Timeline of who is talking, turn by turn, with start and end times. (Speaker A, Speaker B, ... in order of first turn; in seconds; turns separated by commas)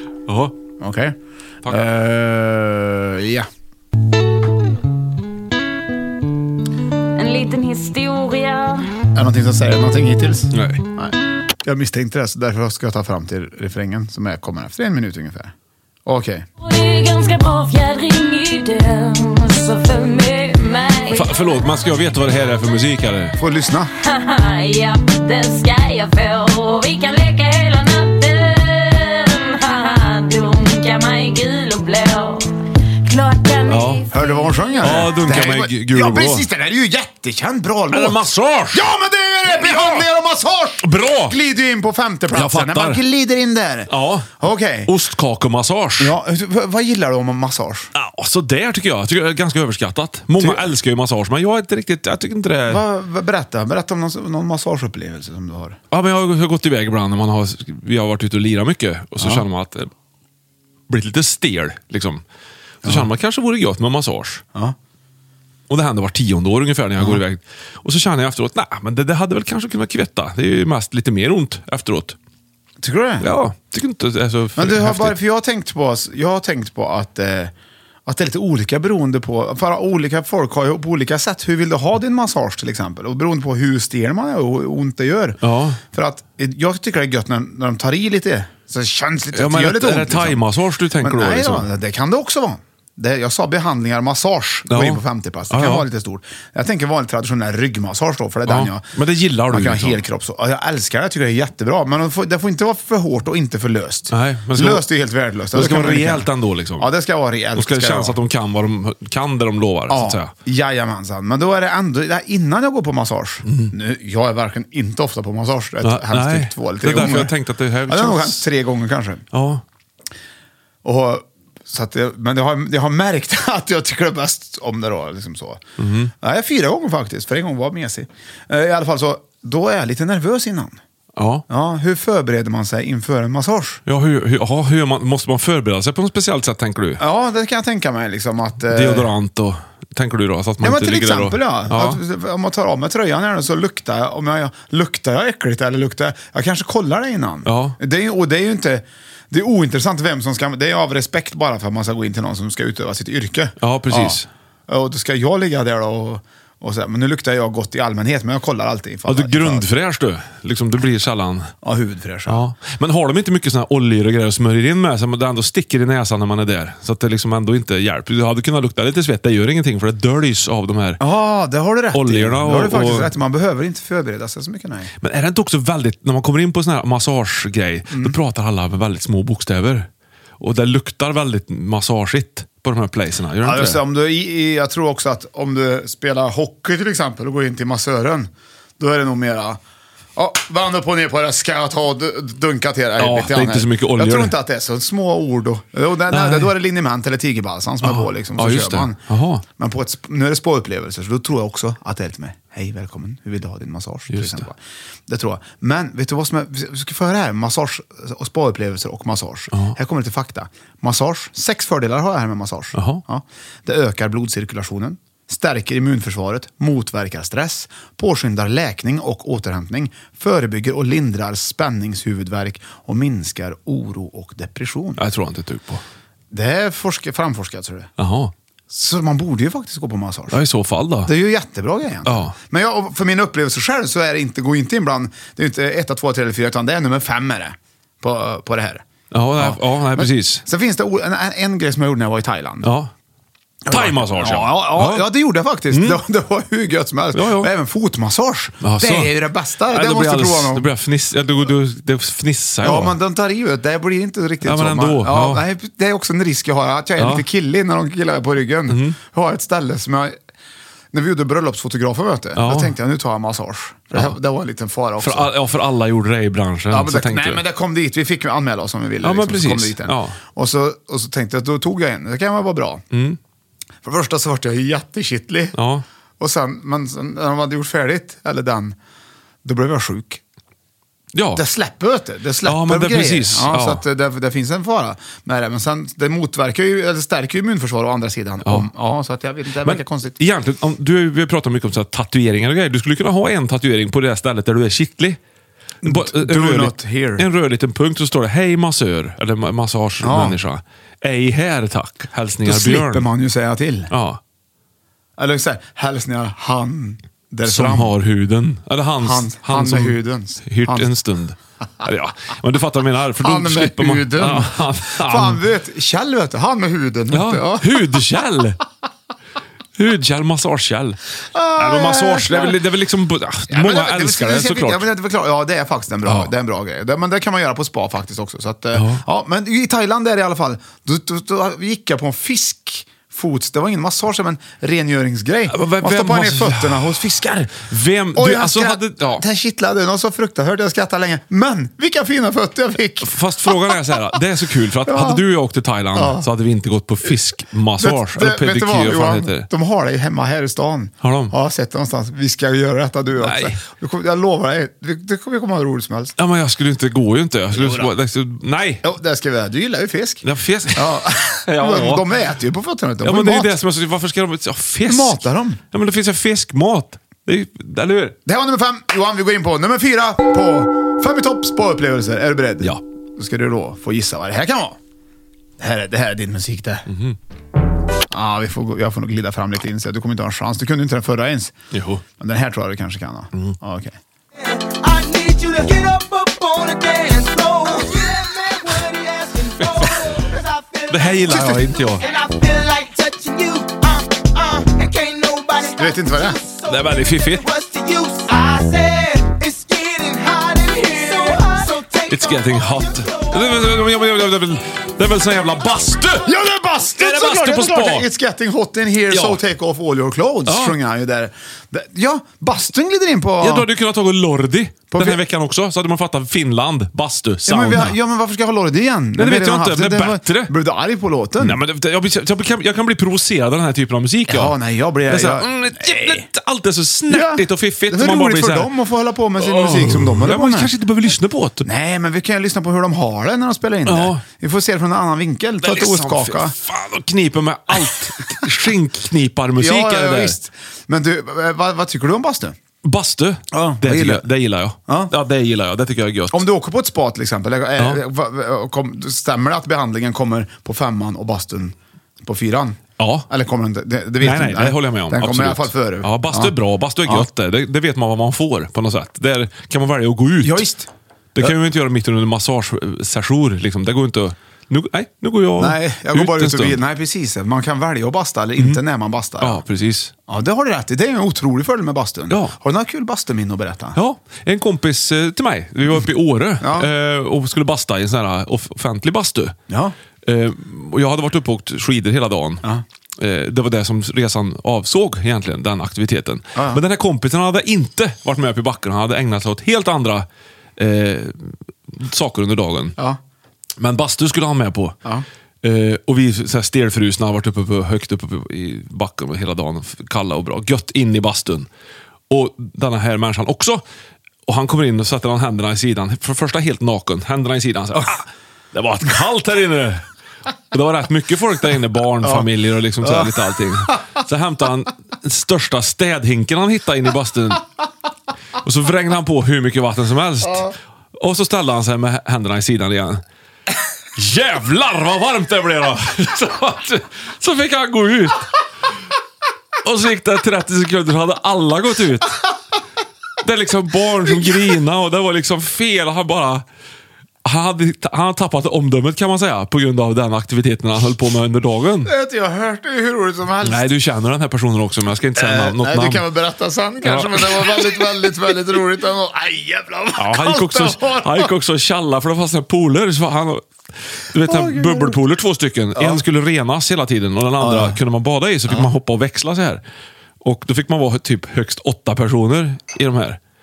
Speaker A: 0.3-0.5, Speaker B: 0.8-3.5, Speaker C: 7.2-8.9, Speaker B: 9.1-15.5, Speaker A: 10.5-10.8, Speaker B: 16.1-16.5, Speaker C: 16.6-21.3, Speaker A: 21.1-23.4, Speaker B: 23.4-23.9, Speaker C: 24.0-34.9, Speaker A: 33.7-34.0, Speaker B: 34.1-44.9, Speaker A: 34.8-36.5, Speaker A: 37.9-38.9, Speaker A: 39.5-40.0, Speaker A: 40.8-41.4, Speaker A: 42.3-43.0, Speaker A: 43.9-46.1, Speaker B: 46.0-47.9, Speaker A: 47.9-52.8, Speaker B: 50.4-50.6, Speaker B: 52.7-55.8, Speaker A: 55.9-59.9, Speaker B: 59.2-59.4, Speaker A: 60.9-62.2, Speaker A: 62.8-64.4, Speaker A: 65.7-72.2, Speaker B: 72.8-73.3, Speaker A: 73.2-75.2, Speaker B: 74.5-77.5, Speaker B: 78.0-90.4, Speaker A: 85.4-85.8, Speaker A: 89.3-91.7, Speaker B: 91.0-98.9, Speaker A: 94.7-95.8, Speaker A: 98.5-100.0, Speaker B: 99.5-108.2, Speaker A: 104.1-104.8, Speaker A: 105.5-106.9, Speaker A: 107.5-110.3, Speaker B: 109.9-117.3, Speaker A: 113.5-113.7, Speaker A: 115.8-118.5, Speaker B: 117.9-119.2, Speaker A: 119.3-119.6, Speaker B: 120.8-125.6, Speaker A: 125.8-126.1, Speaker B: 126.2-130.8, Speaker A: 131.2-131.4, Speaker B: 131.5-133.8, Speaker A: 133.9-137.0, Speaker B: 137.0-139.1, Speaker A: 138.7-142.0, Speaker B: 140.6-159.7, Speaker A: 147.4-147.8, Speaker A: 153.6-154.3, Speaker A: 159.1-161.5, Speaker B: 161.6-162.4, Speaker A: 162.3-171.0, Speaker B: 171.0-174.9, Speaker A: 171.9-173.1, Speaker A: 175.0-179.9, Speaker B: 177.9-178.2, Speaker A: 180.4-183.8, Speaker B: 183.4-189.6, Speaker B: 190.2-199.0, Speaker A: 193.0-194.3, Speaker A: 196.1-196.5, Speaker A: 197.8-199.4, Speaker B: 199.6-225.0, Speaker A: 204.1-204.4, Speaker A: 212.7-213.0, Speaker A: 225.0-225.8, Speaker B: 226.3-227.9, Speaker A: 228.0-228.3, Speaker B: 228.7-230.4, Speaker A: 230.3-231.1, Speaker B: 231.0-238.8, Speaker A: 232.1-232.3, Speaker A: 239.1-240.4, Speaker B: 239.4-242.7, Speaker A: 242.6-242.9, Speaker B: 243.6-250.7, Speaker A: 243.7-245.0, Speaker A: 245.7-246.0, Speaker A: 247.1-247.5, Speaker A: 248.6-249.1, Speaker A: 249.7-253.0, Speaker B: 252.6-260.2, Speaker A: 254.4-255.4, Speaker A: 257.0-257.2, Speaker A: 258.7-259.0, Speaker B: 260.9-265.3, Speaker A: 262.4-262.7, Speaker A: 265.0-267.4, Speaker B: 266.7-272.8, Speaker A: 269.0-270.2, Speaker A: 272.9-273.2, Speaker B: 273.8-275.6, Speaker A: 275.5-275.8, Speaker B: 276.2-278.8, Speaker B: 279.4-280.2, Speaker A: 281.1-281.4, Speaker B: 281.3-290.1, Speaker A: 282.4-283.8, Speaker A: 288.4-288.7, Speaker A: 289.6-295.2, Speaker B: 295.8-297.3, Speaker A: 295.8-303.1, Speaker B: 300.0-300.4, Speaker B: 302.4-303.9, Speaker A: 303.9-304.2, Speaker B: 305.2-307.9, Speaker A: 307.4-315.4, Speaker B: 309.0-310.9, Speaker B: 313.2-318.0, Speaker A: 317.1-318.6, Speaker A: 319.8-321.0, Speaker B: 321.3-322.6, Speaker A: 321.5-324.9, Speaker B: 323.5-344.1, Speaker A: 326.0-326.3, Speaker A: 328.7-329.0, Speaker A: 335.5-337.0, Speaker A: 337.6-339.2, Speaker A: 343.0-349.5, Speaker B: 344.8-345.2, Speaker B: 345.9-346.3, Speaker B: 347.8-356.1, Speaker A: 351.0-351.3, Speaker A: 353.2-353.6, Speaker A: 356.2-358.8, Speaker B: 357.5-357.9, Speaker B: 358.8-363.5, Speaker A: 360.2-362.1, Speaker A: 363.0-368.1, Speaker B: 364.8-365.6, Speaker B: 368.2-374.8, Speaker B: 375.6-376.8, Speaker A: 376.9-377.2, Speaker B: 378.1-381.5, Speaker A: 381.7-382.0, Speaker B: 382.2-384.0, Speaker D: 384.4-403.6, Speaker A: 390.9-392.0, Speaker B: 391.3-391.6, Speaker B: 395.8-396.4, Speaker A: 396.7-397.4, Speaker A: 402.1-406.3, Speaker B: 406.2-413.7, Speaker A: 406.9-408.1, Speaker A: 409.1-409.4, Speaker A: 410.5-410.8, Speaker A: 413.4-417.9, Speaker B: 414.9-415.2, Speaker B: 417.4-421.6, Speaker A: 419.2-420.5, Speaker A: 421.4-424.6, Speaker B: 424.3-426.3, Speaker A: 425.1-428.7, Speaker B: 427.1-430.7, Speaker A: 429.4-431.6, Speaker B: 431.6-436.5, Speaker A: 433.8-434.2, Speaker A: 435.6-440.4, Speaker B: 439.6-442.6, Speaker A: 442.8-446.4, Speaker B: 443.5-444.2, Speaker B: 444.9-445.1, Speaker B: 446.3-456.5, Speaker A: 447.8-448.0, Speaker A: 453.0-453.3, Speaker A: 454.2-460.6, Speaker B: 460.4-461.5, Speaker A: 461.3-466.8, Speaker B: 465.6-469.6, Speaker A: 469.4-470.1, Speaker B: 470.3-474.0, Speaker A: 472.3-472.5, Speaker A: 473.9-479.6, Speaker B: 476.6-476.9, Speaker B: 479.7-479.9, Speaker A: 480.2-482.6, Speaker A: 483.2-490.2, Speaker B: 486.5-486.8, Speaker A: 490.8-492.9, Speaker A: 493.8-494.9, Speaker A: 495.6-501.7, Speaker A: 502.3-503.8, Speaker A: 504.5-510.1, Speaker A: 510.7-517.6, Speaker B: 513.0-513.3, Speaker A: 518.6-523.2, Speaker A: 524.1-528.5, Speaker A: 529.8-532.4, Speaker A: 533.4-536.6, Speaker A: 537.4-542.1, Speaker B: 542.0-543.9, Speaker A: 543.6-546.2, Speaker B: 545.4-551.5, Speaker A: 547.0-548.1, Speaker A: 550.2-559.8, Speaker B: 554.4-555.2, Speaker B: 556.0-556.2, Speaker B: 557.6-558.0, Speaker A: 560.4-563.4